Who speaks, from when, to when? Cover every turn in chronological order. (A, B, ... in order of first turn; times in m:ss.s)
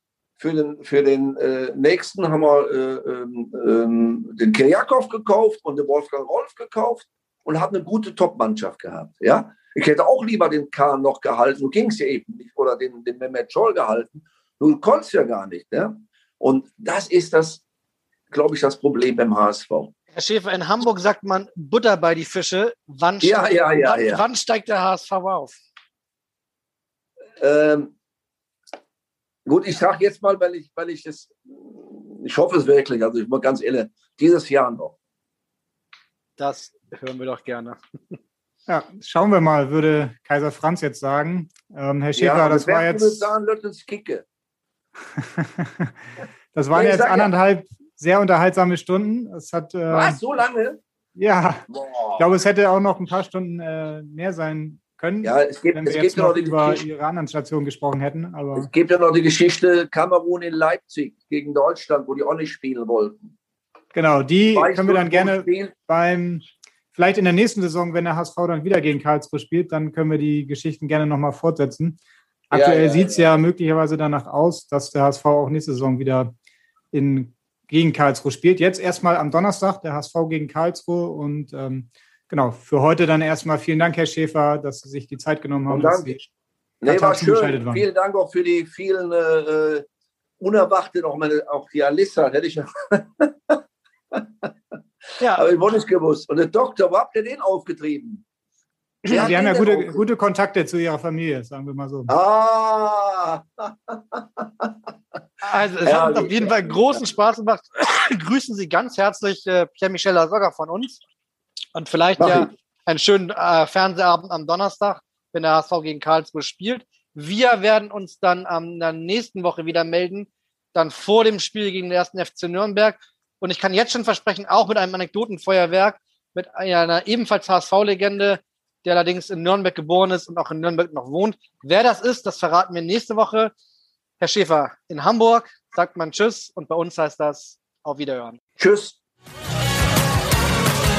0:00.4-0:17.6 A
0:18.3-0:19.9 A
0:20.1-0:25.6 B
0:23.2-0:24.2 A
0:27.4-0:27.9 A
0:29.4-0:35.0 A
0:36.4-0:38.2 B
0:38.7-0:43.3 C
0:42.1-0:44.2 A
0:45.2-0:45.9 C
0:46.5-0:50.2 C
0:46.7-0:47.3 A
0:49.9-0:50.8 A
0:51.2-0:51.6 C
0:51.7-0:52.3 A
0:52.2-0:58.7 C
0:55.2-0:56.8 A
0:58.5-1:03.3 A
1:03.9-1:12.0 C
1:04.4-1:05.7 A
1:12.5-1:13.4 A
1:12.5-1:16.3 C
1:16.9-1:26.3 C
1:25.7-1:26.1 A
1:26.8-1:29.8 A
1:26.8-1:27.8 C
1:30.4-1:33.6 A
1:34.1-1:34.5 A
1:35.2-1:35.4 B
1:35.3-1:38.2 A
1:39.1-1:40.0 A
1:39.1-1:42.1 C
1:42.1-1:44.7 A
1:45.4-1:51.0 B
1:45.8-1:47.1 A
1:51.7-2:13.5 B
1:52.2-1:52.5 A
2:14.2-2:18.4 B
2:18.6-2:19.0 A